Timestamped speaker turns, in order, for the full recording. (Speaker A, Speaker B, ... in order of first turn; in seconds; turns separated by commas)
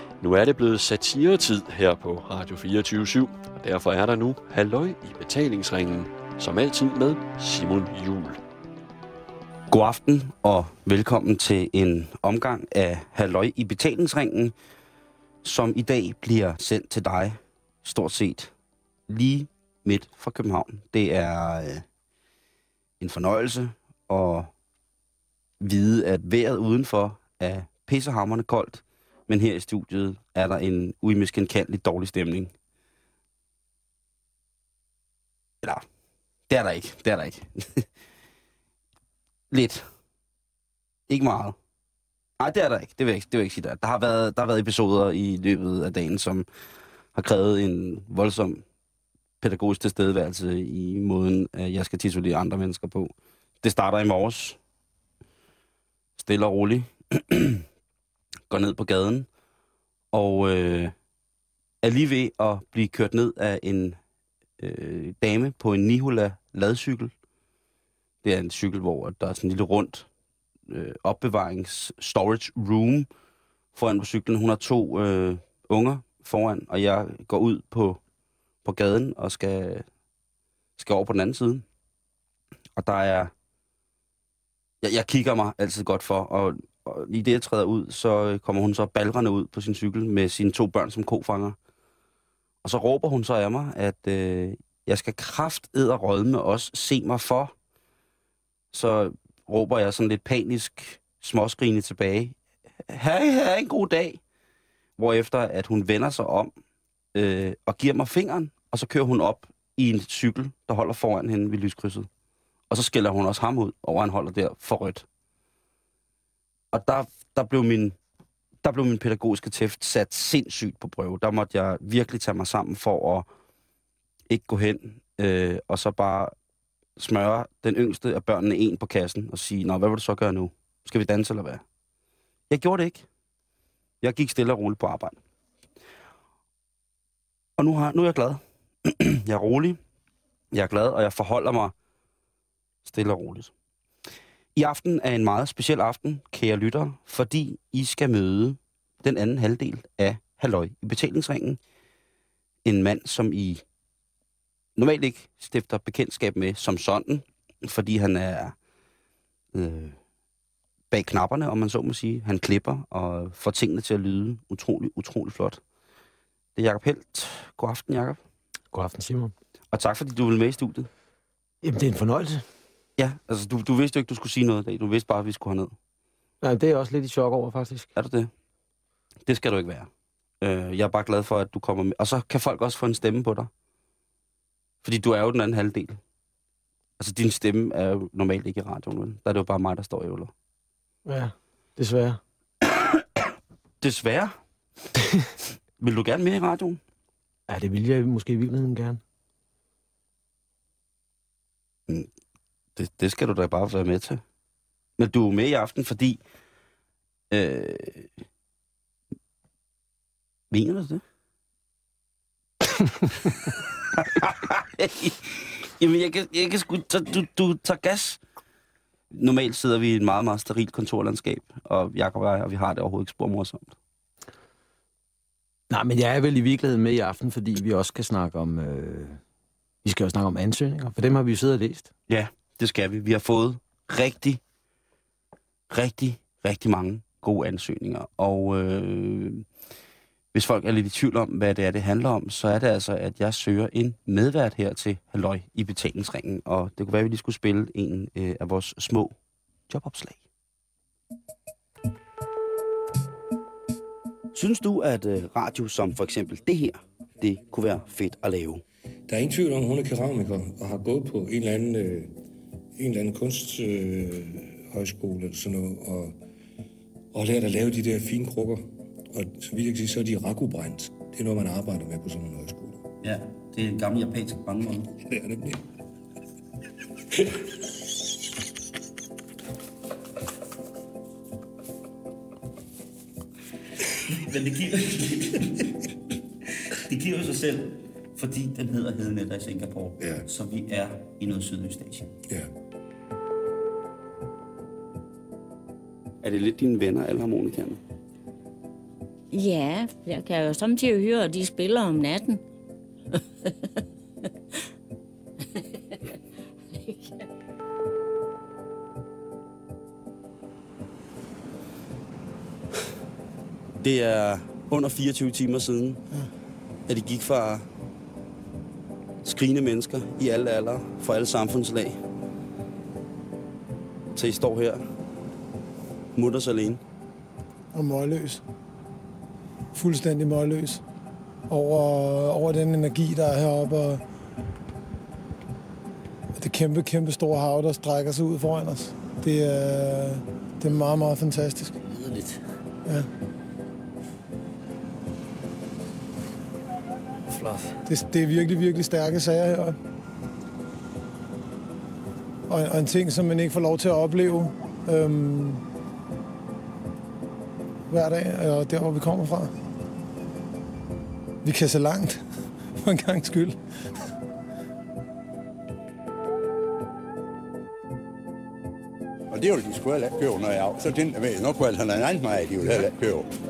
Speaker A: 0.2-8.4, Speaker B: 9.7-14.5, Speaker B: 15.4-18.5, Speaker B: 19.1-21.9, Speaker B: 23.0-24.5, Speaker B: 25.6-32.5, Speaker B: 36.5-37.9, Speaker B: 39.5-39.9, Speaker B: 41.1-41.6, Speaker B: 42.4-46.5, Speaker B: 47.1-48.6, Speaker B: 49.4-54.6, Speaker B: 56.2-57.7, Speaker B: 58.5-59.3, Speaker B: 60.1-60.9, Speaker B: 61.8-64.0, Speaker B: 64.6-67.1, Speaker B: 68.2-70.1, Speaker B: 70.7-73.1, Speaker B: 73.7-78.0, Speaker B: 78.6-79.9, Speaker B: 80.8-81.6, Speaker B: 82.8-83.3, Speaker B: 84.8-91.6, Speaker B: 92.6-97.5, Speaker B: 98.7-104.2, Speaker B: 105.0-106.5, Speaker B: 107.2-112.1, Speaker B: 112.7-115.1, Speaker B: 116.7-118.0, Speaker B: 118.6-123.3, Speaker B: 124.3-126.3, Speaker B: 127.0-131.6, Speaker B: 132.5-133.1, Speaker B: 134.0-135.2, Speaker B: 137.6-139.8, Speaker B: 140.5-141.7, Speaker B: 142.8-143.5, Speaker B: 144.6-151.6, Speaker B: 152.7-153.6, Speaker B: 154.8-158.6, Speaker B: 159.5-160.0, Speaker B: 160.9-165.6, Speaker B: 166.6-168.2, Speaker C: 168.7-169.3, Speaker B: 169.7-170.9, Speaker C: 171.6-172.4, Speaker B: 173.0-175.8, Speaker C: 176.4-177.9, Speaker B: 178.0-178.3, Speaker B: 179.3-179.9, Speaker B: 180.4-183.5, Speaker B: 184.8-186.0, Speaker B: 187.0-190.3, Speaker C: 191.1-192.2, Speaker B: 192.8-193.0, Speaker B: 193.8-194.4, Speaker B: 195.8-196.8, Speaker C: 197.5-199.0, Speaker B: 202.8-204.2, Speaker B: 205.0-206.2, Speaker B: 207.3-208.1, Speaker B: 210.5-211.0, Speaker B: 213.2-218.2, Speaker B: 219.1-223.7, Speaker C: 225.7-229.2, Speaker C: 229.8-231.9, Speaker B: 232.1-234.4, Speaker B: 235.7-239.5, Speaker B: 240.3-249.2, Speaker B: 249.7-250.2, Speaker B: 254.3-258.6, Speaker D: 259.1-262.1, Speaker D: 262.8-266.2, Speaker D: 267.1-272.8, Speaker B: 273.0-274.9, Speaker D: 275.0-275.6, Speaker B: 284.1-285.8, Speaker B: 286.7-292.1, Speaker D: 290.0-290.3, Speaker B: 296.2-297.8, Speaker E: 299.3-302.4, Speaker E: 306.9-307.3, Speaker B: 313.8-316.0, Speaker B: 316.9-317.7, Speaker B: 319.2-322.0, Speaker B: 324.1-324.8, Speaker B: 326.1-326.8, Speaker F: 327.7-328.4, Speaker F: 329.7-330.8, Speaker F: 331.5-334.0, Speaker F: 336.4-341.8, Speaker B: 342.0-342.3, Speaker F: 347.9-349.8, Speaker F: 352.5-355.6, Speaker F: 357.9-359.5, Speaker F: 361.4-362.2, Speaker F: 362.8-363.6, Speaker G: 369.3-373.3